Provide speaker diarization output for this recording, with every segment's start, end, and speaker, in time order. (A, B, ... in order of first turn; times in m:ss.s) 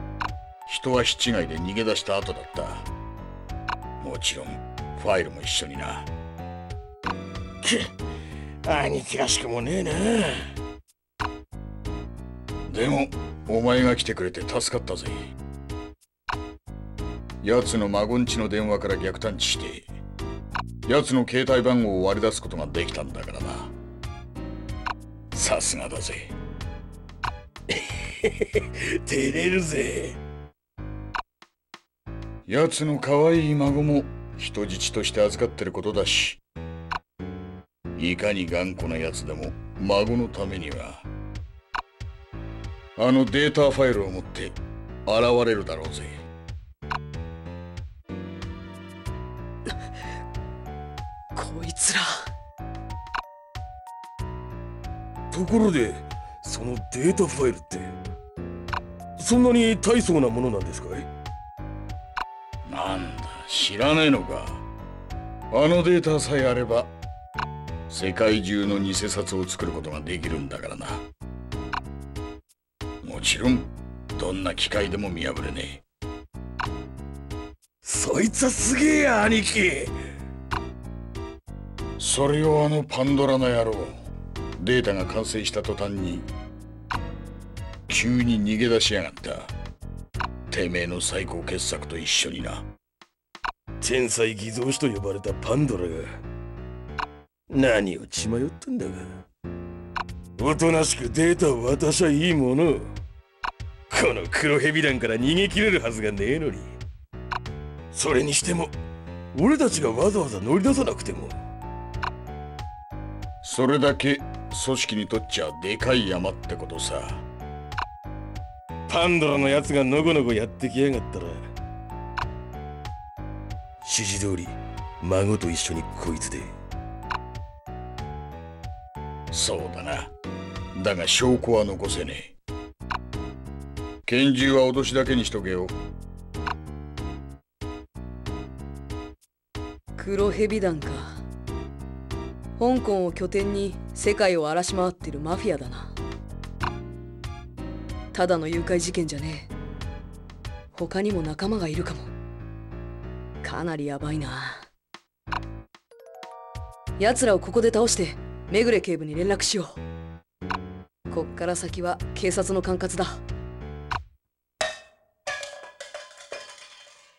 0:00.7-0:02.9 A
0:04.0-0:06.1 A
0:07.6-0:07.9 B
0:08.6-0:10.5 B
0:12.7-0:15.3 A
0:17.4-0:19.9 A
0:20.9-0:23.7 A
0:25.3-0:26.4 A
0:27.7-0:30.2 B
0:32.5-0:36.4 A
0:38.0-0:41.1 A
0:43.0-0:46.2 A
0:51.3-0:52.3 C
0:55.3-0:58.0 B
0:59.2-1:01.1 B
1:02.7-1:04.6 A
1:05.5-1:06.9 A
1:07.9-1:11.0 A
1:13.0-1:15.8 A
1:17.8-1:19.9 B
1:22.0-1:24.0 A
1:24.6-1:26.3 A
1:27.9-1:29.5 A
1:30.5-1:32.7 A
1:33.8-1:36.1 B
1:37.5-1:39.2 B
1:40.4-1:42.9 B
1:43.9-1:46.8 B
1:47.9-1:48.7 B
1:49.4-1:51.4 B
1:53.4-1:57.2 A
1:58.9-2:01.5 B
2:03.8-2:06.5 B
2:09.3-2:10.1 A
2:10.8-2:12.4 A
2:14.1-2:15.8 A
2:20.0-2:21.2 C
2:22.6-2:26.0 C
2:28.1-2:29.5 C
2:30.7-2:32.1 C
2:33.4-2:34.7 C
2:37.0-2:39.8 C
2:41.1-2:43.2 C